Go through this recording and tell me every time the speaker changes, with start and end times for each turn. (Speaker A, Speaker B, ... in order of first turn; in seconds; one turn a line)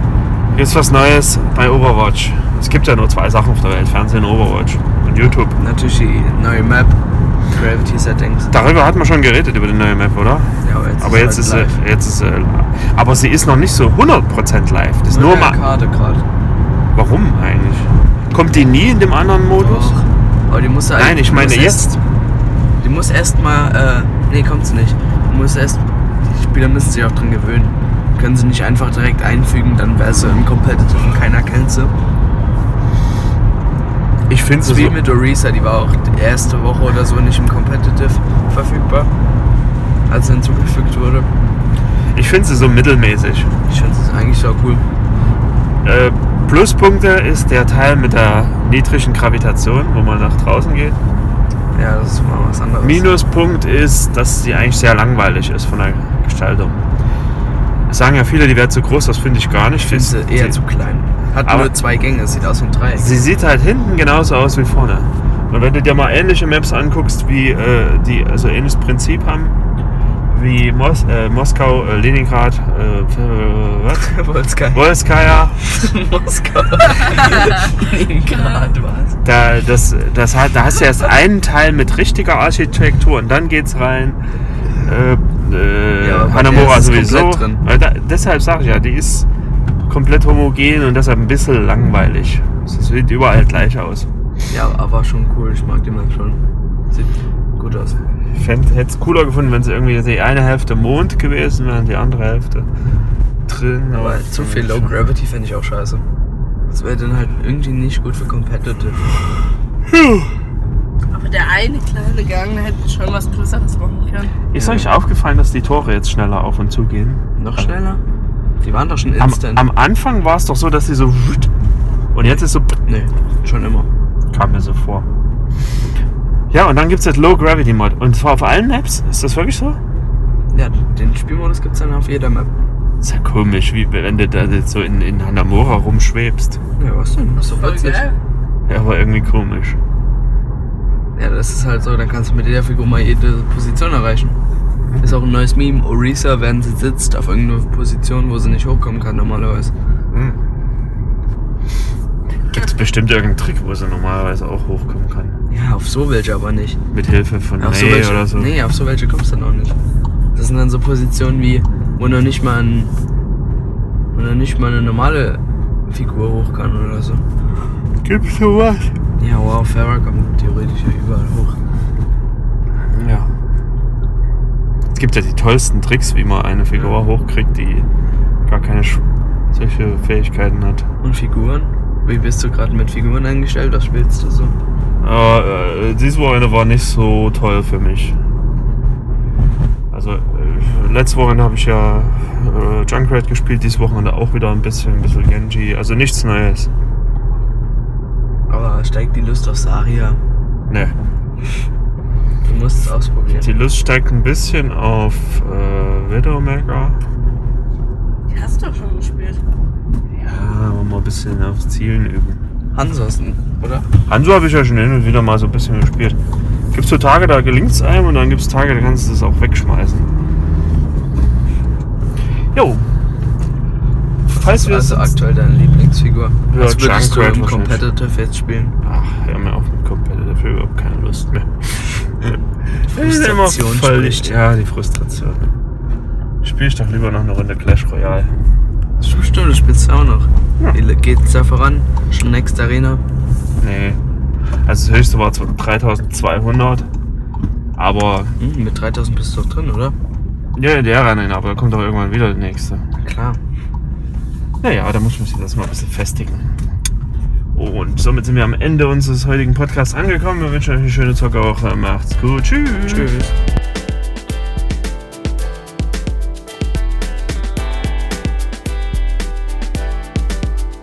Speaker A: 0.5-5.6
Speaker B: 5.5-7.0
Speaker B: 7.5-8.5
Speaker A: 8.5-15.6
Speaker B: 10.6-11.8
Speaker B: 15.1-16.2
Speaker A: 16.9-20.0
Speaker B: 19.5-21.9
Speaker A: 20.9-22.0
Speaker B: 22.8-31.9
Speaker A: 34.3-35.0
Speaker B: 34.6-39.1
Speaker B: 40.1-41.3
Speaker A: 42.1-43.5
Speaker B: 43.7-44.9
Speaker A: 45.8-51.0
Speaker B: 51.7-53.1
Speaker A: 52.8-56.8
Speaker A: 57.9-60.6
Speaker B: 59.8-63.2
Speaker A: 61.5-61.7
Speaker A: 63.0-69.6
Speaker A: 70.3-74.2
Speaker B: 73.9-75.0
Speaker A: 74.7-75.8
Speaker B: 75.6-79.2
Speaker A: 79.2-84.2
Speaker A: 84.8-89.3
Speaker B: 86.0-87.6
Speaker A: 89.9-94.1
Speaker B: 94.5-98.0
Speaker A: 98.3-102.7
Speaker A: 103.5-105.0
Speaker B: 103.9-106.0
Speaker B: 106.7-109.2
Speaker A: 109.9-110.3
Speaker C: 111.1-114.4
Speaker A: 114.5-117.8
Speaker B: 114.5-114.9
Speaker B: 117.4-118.0
Speaker B: 118.6-119.7
Speaker A: 119.2-121.5
Speaker A: 122.1-122.8
Speaker B: 122.9-123.9
Speaker A: 124.3-125.1
Speaker A: 126.5-129.8
Speaker B: 130.5-132.7
Speaker A: 133.0-136.6
Speaker B: 136.8-138.1
Speaker C: 137.4-138.2
Speaker A: 138.7-139.8
Speaker B: 141.2-144.4
Speaker A: 144.9-145.2
Speaker B: 145.0-149.7
Speaker A: 150.1-150.4
Speaker A: 152.5-155.4
Speaker B: 155.5-156.8
Speaker A: 156.9-158.5
Speaker B: 157.6-159.8
Speaker B: 160.3-162.9
Speaker B: 164.1-167.2
Speaker A: 168.0-168.9
Speaker B: 169.2-171.6
Speaker A: 172.9-173.3
Speaker A: 174.9-177.9
Speaker A: 178.5-180.8
Speaker B: 181.0-184.6
Speaker A: 185.0-188.2
Speaker A: 189.9-196.7
Speaker B: 198.5-200.2
Speaker A: 200.7-200.9
Speaker B: 202.4-203.6
Speaker A: 203.3-207.0
Speaker C: 208.3-209.4
Speaker A: 210.2-212.4
Speaker B: 212.7-213.9
Speaker A: 214.1-216.2
Speaker A: 216.7-220.1
Speaker A: 222.5-222.9
Speaker A: 224.3-225.2
Speaker B: 224.3-228.8
Speaker A: 226.5-227.8
Speaker A: 228.8-235.5
Speaker B: 232.9-234.4
Speaker A: 236.4-238.3
Speaker B: 239.0-243.0
Speaker A: 243.6-244.0
Speaker A: 244.7-246.9
Speaker A: 247.8-248.4
Speaker B: 248.4-249.9
Speaker A: 250.6-252.8
Speaker B: 253.0-253.4
Speaker A: 254.6-256.5
Speaker A: 257.5-263.1
Speaker B: 262.8-263.3